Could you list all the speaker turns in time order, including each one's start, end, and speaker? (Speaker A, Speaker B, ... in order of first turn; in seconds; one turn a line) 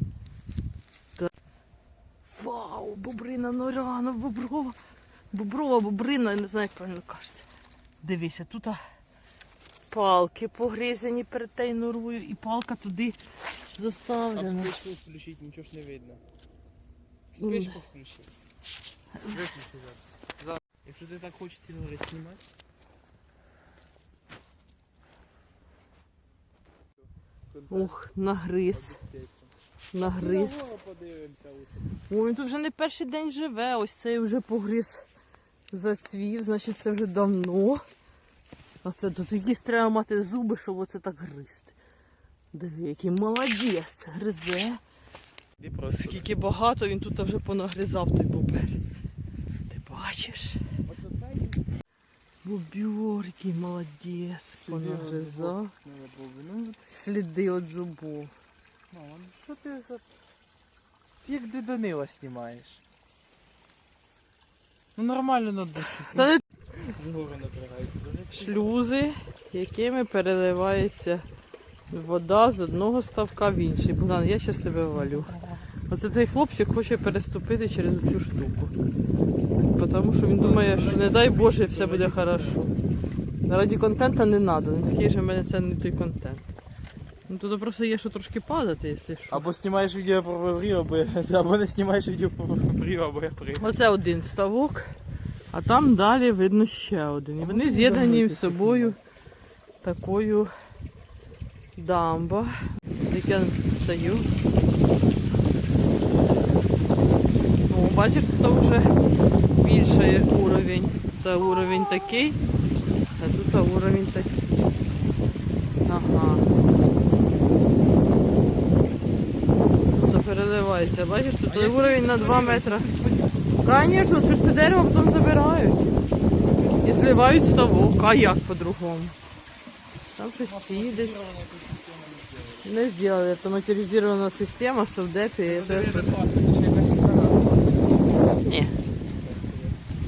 Speaker A: 2.2-4.8
Speaker A: 5.3-7.5
Speaker A: 8.0-8.8
Speaker A: 9.9-14.7
Speaker B: 14.3-16.2
Speaker B: 17.3-18.3
Speaker A: 17.4-17.8
Speaker B: 19.3-22.4
Speaker B: 27.5-28.1
Speaker A: 27.7-29.0
Speaker B: 28.6-32.0
Speaker A: 29.9-30.6
Speaker A: 32.1-35.0
Speaker A: 35.7-37.8
Speaker A: 38.8-41.8
Speaker A: 42.5-44.8
Speaker B: 45.6-46.3
Speaker A: 45.9-48.8
Speaker A: 49.7-50.6
Speaker B: 50.8-51.6
Speaker A: 52.4-55.7
Speaker B: 54.6-56.9
Speaker A: 56.9-58.3
Speaker B: 58.9-60.1
Speaker B: 61.2-62.8
Speaker B: 65.0-68.7
Speaker A: 66.1-66.4
Speaker A: 68.3-71.3
Speaker A: 71.9-78.7
Speaker A: 79.6-82.7
Speaker B: 80.3-82.7
Speaker A: 83.5-86.5
Speaker A: 87.3-89.5
Speaker B: 89.3-93.7
Speaker A: 93.6-94.9
Speaker A: 95.5-99.0
Speaker B: 97.4-99.0
Speaker A: 99.8-100.5
Speaker A: 101.8-104.3
Speaker A: 107.7-109.0
Speaker A: 109.5-112.4
Speaker A: 113.2-114.5
Speaker A: 115.8-116.5
Speaker A: 119.9-122.9
Speaker B: 121.5-123.4
Speaker A: 123.6-125.8
Speaker A: 126.8-129.2
Speaker A: 130.1-131.2
Speaker B: 130.4-132.7
Speaker A: 132.6-136.2
Speaker B: 135.4-138.0
Speaker A: 138.4-138.8
Speaker B: 139.1-139.8